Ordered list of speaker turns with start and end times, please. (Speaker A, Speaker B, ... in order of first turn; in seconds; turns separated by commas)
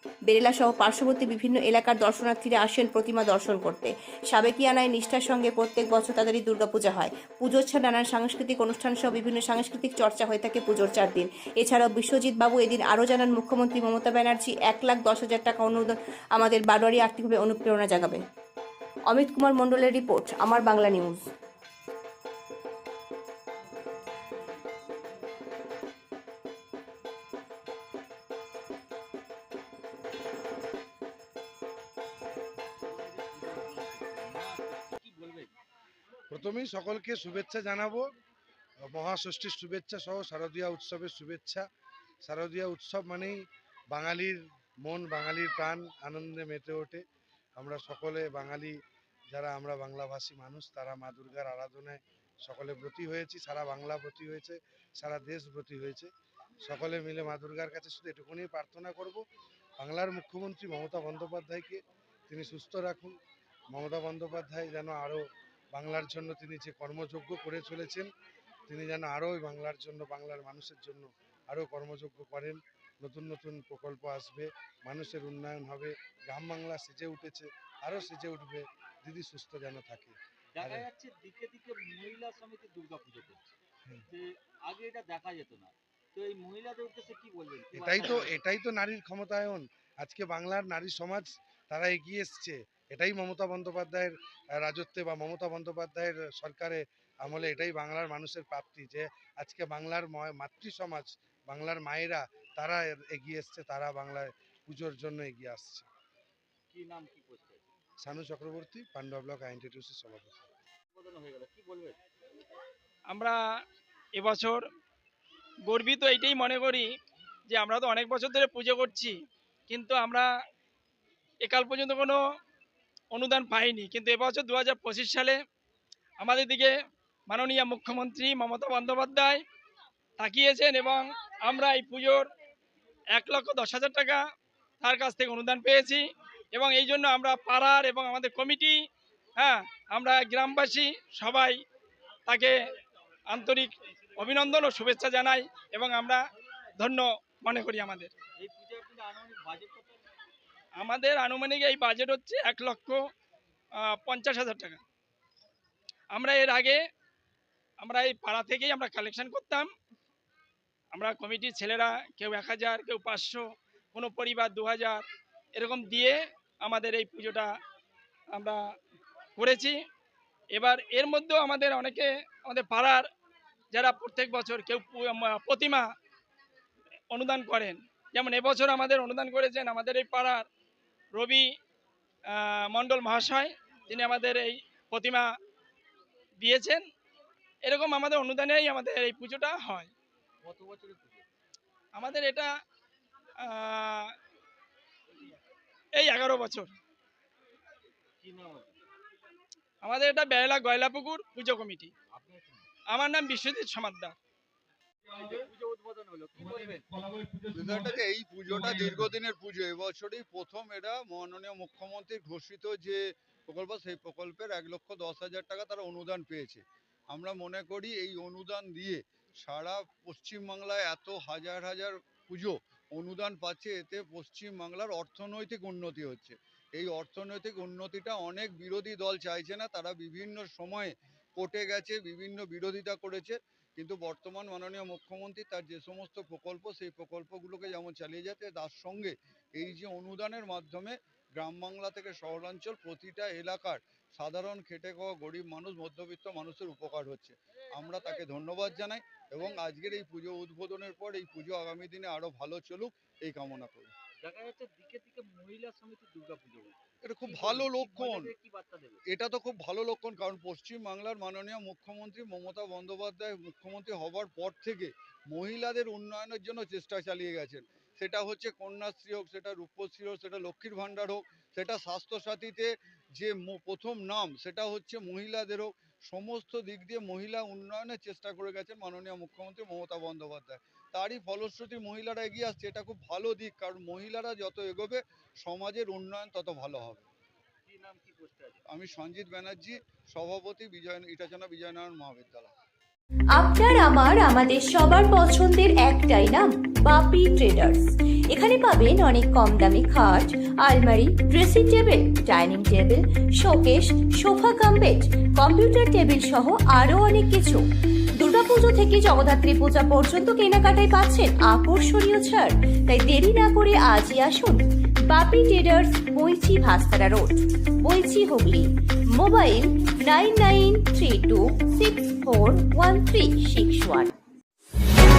Speaker A: 0.3-18.2, Speaker A: 19.1-21.2, Speaker B: 32.8-35.5, Speaker C: 36.3-38.0, Speaker C: 38.9-41.6, Speaker C: 42.3-43.4, Speaker C: 43.9-47.0, Speaker C: 47.6-48.7, Speaker C: 49.3-56.1, Speaker C: 56.6-59.2, Speaker C: 59.8-61.8, Speaker C: 62.3-63.1, Speaker C: 63.7-65.2, Speaker C: 65.7-68.1, Speaker C: 68.7-80.8, Speaker B: 80.5-83.4, Speaker B: 84.1-88.4, Speaker C: 87.8-105.9, Speaker B: 106.7-107.6, Speaker C: 108.0-110.5, Speaker B: 110.9-112.0, Speaker D: 113.1-113.4, Speaker D: 114.2-114.6, Speaker D: 115.7-116.9, Speaker D: 117.5-119.2, Speaker D: 119.7-120.3, Speaker D: 121.4-122.2, Speaker D: 123.1-125.4, Speaker D: 126.2-126.7, Speaker D: 127.3-129.4, Speaker D: 130.2-132.3, Speaker D: 133.1-134.2, Speaker D: 134.8-138.8, Speaker D: 139.4-141.6, Speaker D: 142.3-142.6, Speaker D: 143.3-146.2, Speaker D: 146.8-148.1, Speaker B: 148.4-150.0, Speaker D: 150.8-153.1, Speaker D: 153.8-154.8, Speaker D: 156.1-156.8, Speaker D: 157.8-159.7, Speaker D: 160.9-165.0, Speaker D: 165.6-167.5, Speaker D: 168.3-168.6, Speaker D: 169.4-169.8, Speaker D: 170.5-173.1, Speaker D: 173.7-175.9, Speaker D: 177.1-180.5, Speaker D: 181.1-181.5, Speaker D: 182.3-185.3, Speaker D: 186.4-186.8, Speaker D: 187.6-189.9, Speaker B: 190.4-191.3, Speaker D: 191.9-192.5, Speaker D: 193.4-194.1, Speaker D: 195.9-196.7, Speaker B: 198.2-198.8, Speaker D: 199.8-201.9, Speaker B: 202.1-202.7, Speaker D: 202.9-204.2, Speaker B: 205.0-207.2, Speaker E: 207.5-253.9, Speaker B: 254.2-259.0, Speaker E: 257.0-258.3, Speaker E: 259.1-287.1, Speaker B: 287.6-288.6, Speaker E: 288.7-292.5, Speaker A: 293.4-307.6, Speaker A: 308.2-324.1